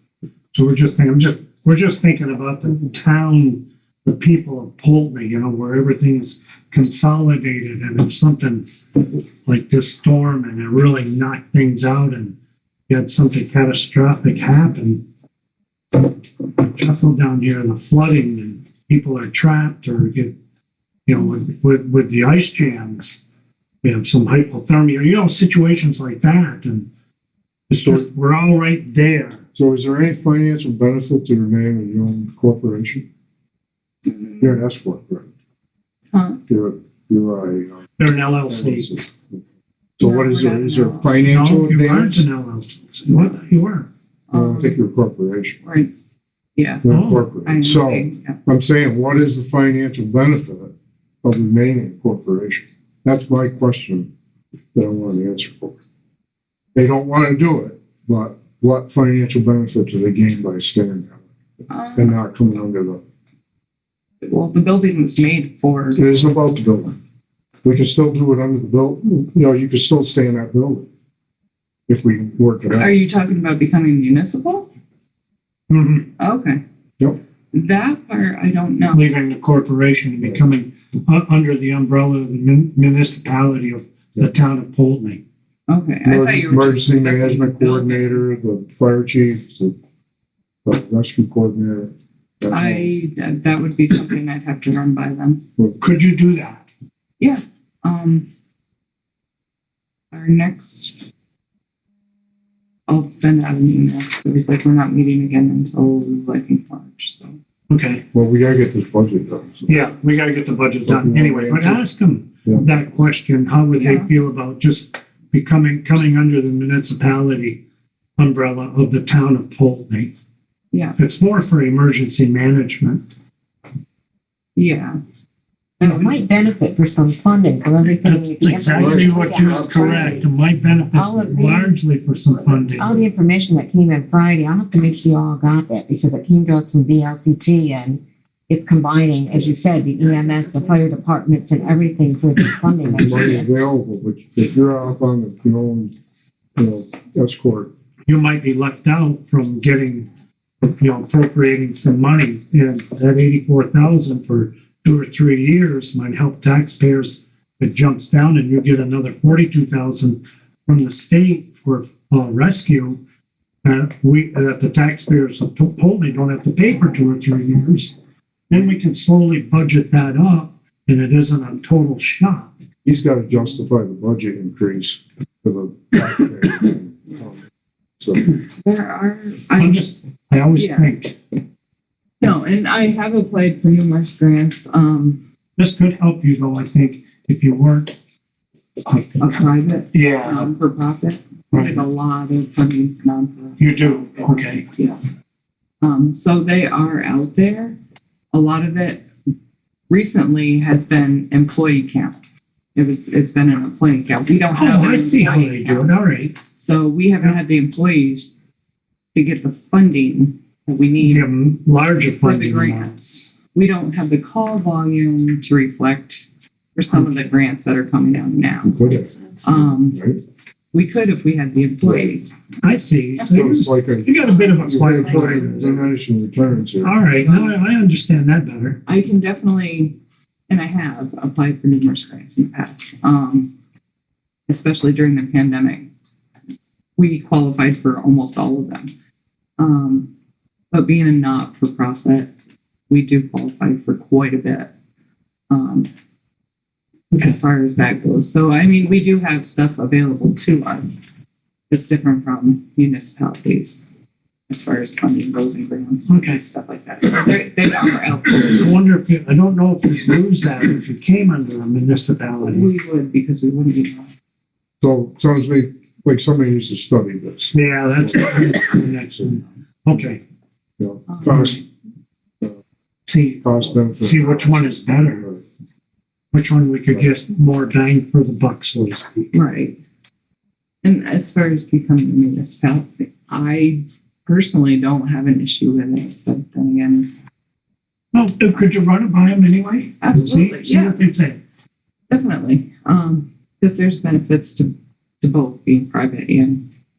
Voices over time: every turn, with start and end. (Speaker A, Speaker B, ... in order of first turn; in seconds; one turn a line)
Speaker A: 0.5-8.7
Speaker A: 9.4-12.4
Speaker A: 12.9-15.0
Speaker A: 16.6-20.4
Speaker A: 21.1-23.2
Speaker A: 23.8-26.9
Speaker A: 27.7-29.4
Speaker B: 29.6-33.1
Speaker C: 34.0-34.6
Speaker B: 34.4-35.3
Speaker C: 36.1-36.4
Speaker B: 36.5-37.8
Speaker A: 38.0-38.9
Speaker B: 38.5-39.4
Speaker B: 40.0-42.2
Speaker C: 40.0-41.2
Speaker A: 41.3-43.9
Speaker C: 44.3-44.8
Speaker B: 44.3-45.6
Speaker C: 45.6-45.9
Speaker C: 46.6-48.4
Speaker B: 46.8-50.7
Speaker A: 46.9-47.3
Speaker B: 51.2-54.1
Speaker B: 54.7-55.8
Speaker B: 56.8-61.2
Speaker C: 61.7-62.2
Speaker B: 62.0-63.0
Speaker C: 64.2-66.0
Speaker B: 66.0-67.0
Speaker B: 67.6-70.9
Speaker B: 71.9-72.9
Speaker C: 72.7-74.7
Speaker A: 75.7-76.1
Speaker C: 76.2-76.6
Speaker C: 77.5-79.0
Speaker A: 78.9-85.2
Speaker C: 85.7-88.3
Speaker B: 86.0-89.8
Speaker B: 90.7-92.9
Speaker C: 92.5-95.4
Speaker A: 95.8-96.7
Speaker C: 97.2-98.3
Speaker C: 100.1-101.0
Speaker C: 102.9-107.3
Speaker A: 107.7-108.0
Speaker B: 108.1-109.8
Speaker A: 109.7-117.6
Speaker B: 110.8-111.8
Speaker C: 113.8-114.1
Speaker A: 118.2-120.1
Speaker C: 120.7-121.0
Speaker A: 121.0-123.1
Speaker C: 124.6-125.0
Speaker D: 125.8-130.2
Speaker A: 125.8-126.1
Speaker A: 128.0-133.1
Speaker B: 128.8-130.2
Speaker D: 130.9-131.8
Speaker D: 132.3-143.5
Speaker C: 140.0-140.9
Speaker B: 142.9-145.9
Speaker B: 146.6-147.7
Speaker A: 148.1-150.1
Speaker A: 150.6-163.0
Speaker A: 163.6-168.0
Speaker A: 168.5-172.5
Speaker B: 172.8-177.4
Speaker C: 173.3-173.7
Speaker B: 178.0-178.3
Speaker C: 178.6-179.9
Speaker A: 179.6-181.2
Speaker C: 180.5-180.9
Speaker C: 182.2-185.2
Speaker A: 185.6-187.9
Speaker A: 188.9-190.5
Speaker C: 189.2-195.0
Speaker A: 191.5-191.8
Speaker A: 193.6-194.7
Speaker C: 195.8-197.8
Speaker C: 198.3-199.1
Speaker C: 199.9-202.2
Speaker C: 202.8-205.9
Speaker A: 204.5-206.4
Speaker C: 206.6-208.3
Speaker C: 209.1-211.3
Speaker A: 211.0-212.9
Speaker C: 212.2-220.0
Speaker B: 218.7-220.2
Speaker C: 220.7-222.4
Speaker B: 221.8-222.1
Speaker A: 222.6-225.7
Speaker B: 223.3-227.0
Speaker C: 224.2-225.9
Speaker A: 226.8-228.8
Speaker C: 227.1-227.6
Speaker C: 228.9-229.9
Speaker C: 230.5-233.5
Speaker C: 234.5-235.9
Speaker C: 237.0-238.9
Speaker C: 239.6-240.1
Speaker C: 240.7-242.3
Speaker C: 242.9-244.7
Speaker C: 245.5-245.9
Speaker C: 247.2-251.0
Speaker C: 251.7-253.8
Speaker C: 254.5-258.7
Speaker A: 256.1-256.4
Speaker A: 258.4-262.7
Speaker C: 262.4-264.1
Speaker B: 264.8-269.4
Speaker A: 267.5-270.2
Speaker B: 270.8-271.6
Speaker C: 271.1-271.6
Speaker A: 273.1-275.3
Speaker B: 273.4-275.4
Speaker A: 276.3-279.3
Speaker C: 279.3-279.8
Speaker C: 280.8-287.1
Speaker A: 288.1-291.4
Speaker C: 290.0-291.0
Speaker C: 292.1-296.6